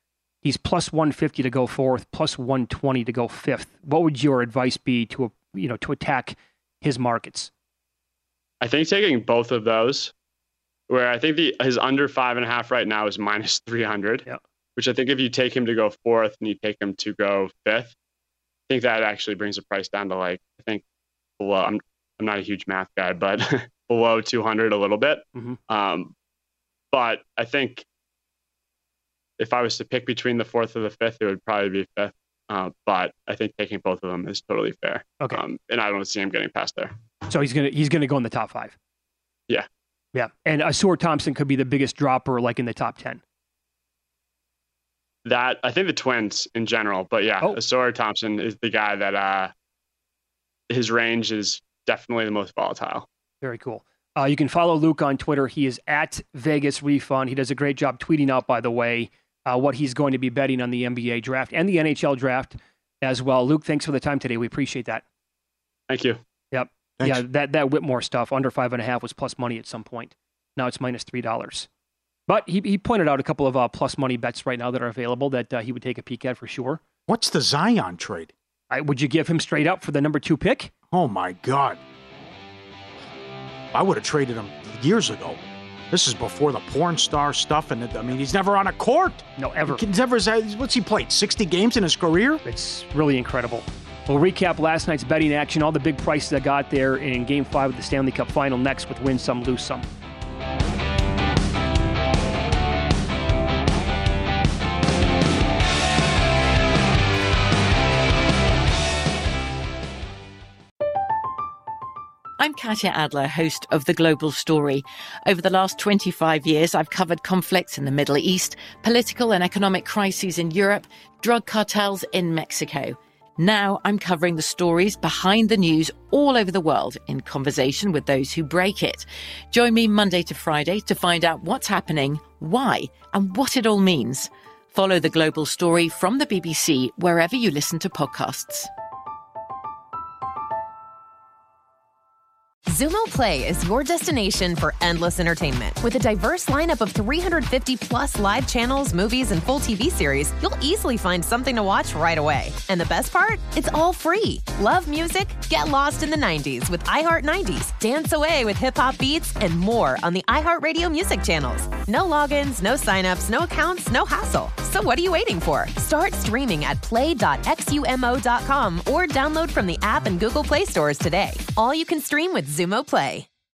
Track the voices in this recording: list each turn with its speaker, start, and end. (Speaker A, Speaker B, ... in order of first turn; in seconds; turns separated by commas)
Speaker A: 0.4-7.5, Speaker B: 8.6-10.1, Speaker B: 10.9-17.9, Speaker B: 18.7-20.8, Speaker B: 21.4-26.1, Speaker B: 26.9-27.8, Speaker B: 29.4-36.9, Speaker A: 37.3-38.7, Speaker A: 40.1-43.2, Speaker B: 45.2-49.5, Speaker B: 50.7-53.0, Speaker A: 53.4-65.0, Speaker B: 65.9-66.2, Speaker A: 66.5-71.7, Speaker C: 67.0-67.2, Speaker A: 72.3-76.8, Speaker C: 77.1-78.3, Speaker A: 78.7-80.7, Speaker C: 80.9-81.8, Speaker C: 83.7-92.4, Speaker A: 89.4-89.8, Speaker A: 92.4-99.9, Speaker D: 112.4-138.7, Speaker E: 142.7-173.2